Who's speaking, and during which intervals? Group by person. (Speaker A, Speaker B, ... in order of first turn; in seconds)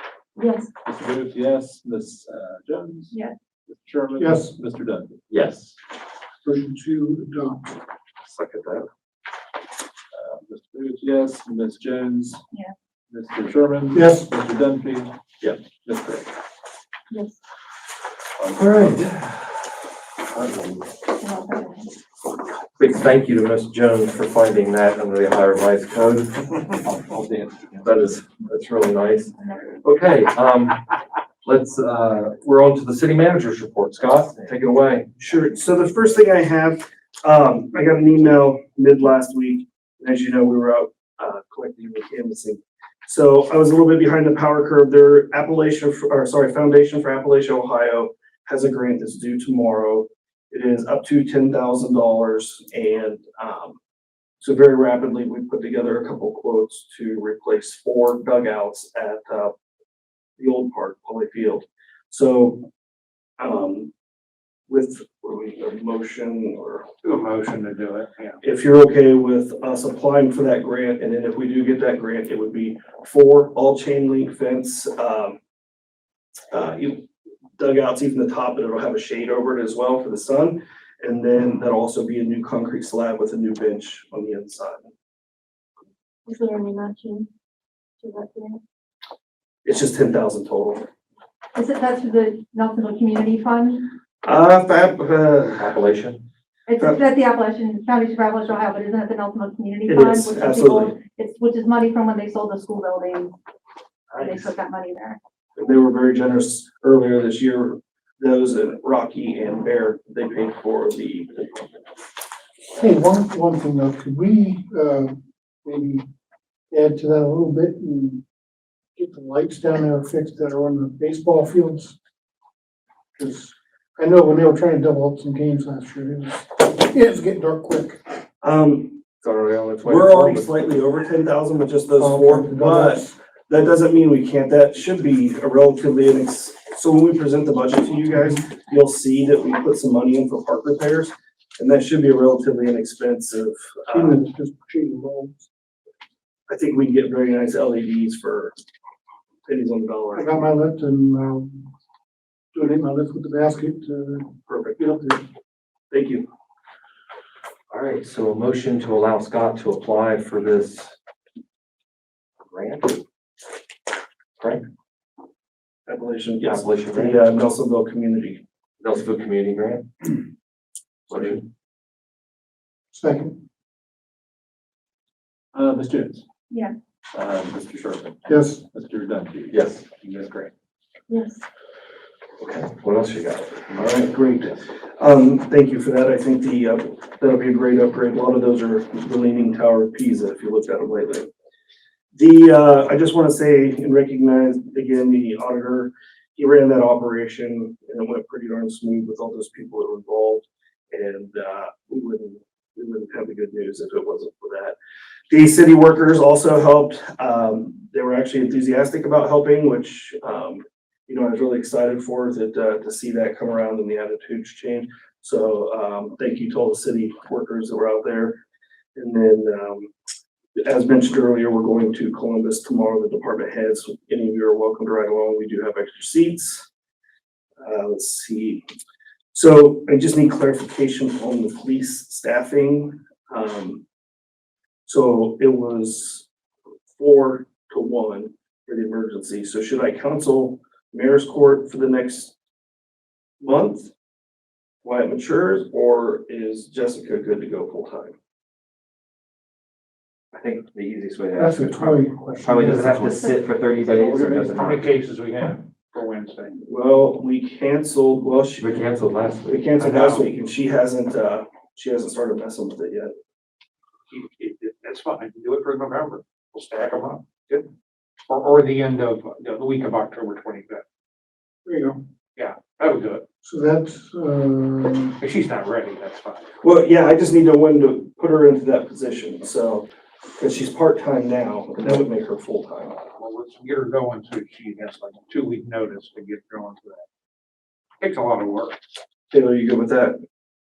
Speaker A: 0.4-0.7, 17.1-17.4, 21.2-21.9, 29.4-29.7, 86.3-87.2, 88.0-88.6, 91.6-93.9, 96.7-103.3, 104.1-105.2, 181.1-181.4
Speaker B: 0.8-3.1, 3.7-5.2, 10.1-12.4, 13.1-15.1, 15.7-16.3, 18.4-18.9, 26.9-27.8, 175.5-176.2, 177.1-180.5
Speaker C: 4.2-4.5, 6.4-7.8, 13.9-14.3, 112.7-116.1, 116.7-118.2, 119.0-122.0, 123.2-128.0, 132.0-133.2, 138.2-138.4, 143.9-145.5, 150.1-151.7, 152.5-155.2, 172.9-173.4, 178.3-178.6, 251.4-253.3, 271.6-272.0, 273.4-275.2
Speaker D: 5.3-5.7, 8.2-8.9, 18.5-19.4, 22.8-26.4, 27.8-29.3, 29.8-30.8, 31.4-35.1, 95.4-96.2, 129.2-130.5, 157.7-160.9, 162.5-163.0, 166.4-167.2, 168.8-169.8, 171.1-171.4, 179.5-179.8, 182.4-183.9, 250.3-254.8, 258.6-259.7
Speaker E: 35.2-53.8, 54.4-59.5, 60.4-62.7, 63.4-63.9, 64.7-66.9, 68.4-75.4, 76.5-84.9, 89.6-90.9, 94.2-95.5, 99.9-101.0, 105.6-111.6, 128.4-129.1, 129.8-144.2, 146.5-148.5, 149.4-150.3, 154.5-154.8, 155.9-156.3, 165.9-168.4, 183.8-191.3, 192.1-204.8, 205.3-218.4, 218.9-219.9, 220.6-226.7, 227.6-228.6, 229.3-233.8, 234.8-236.3, 237.0-242.3, 243.4-243.9, 244.8-248.2, 256.6-258.8, 259.5-263.1, 276.6-283.0, 289.3-290.2
Speaker F: 67.0-68.4, 253.9-256.6, 259.8-260.3, 264.1-267.7, 268.2-270.8, 272.4-273.2, 275.2-276.5, 283.2-287.1, 288.0-288.8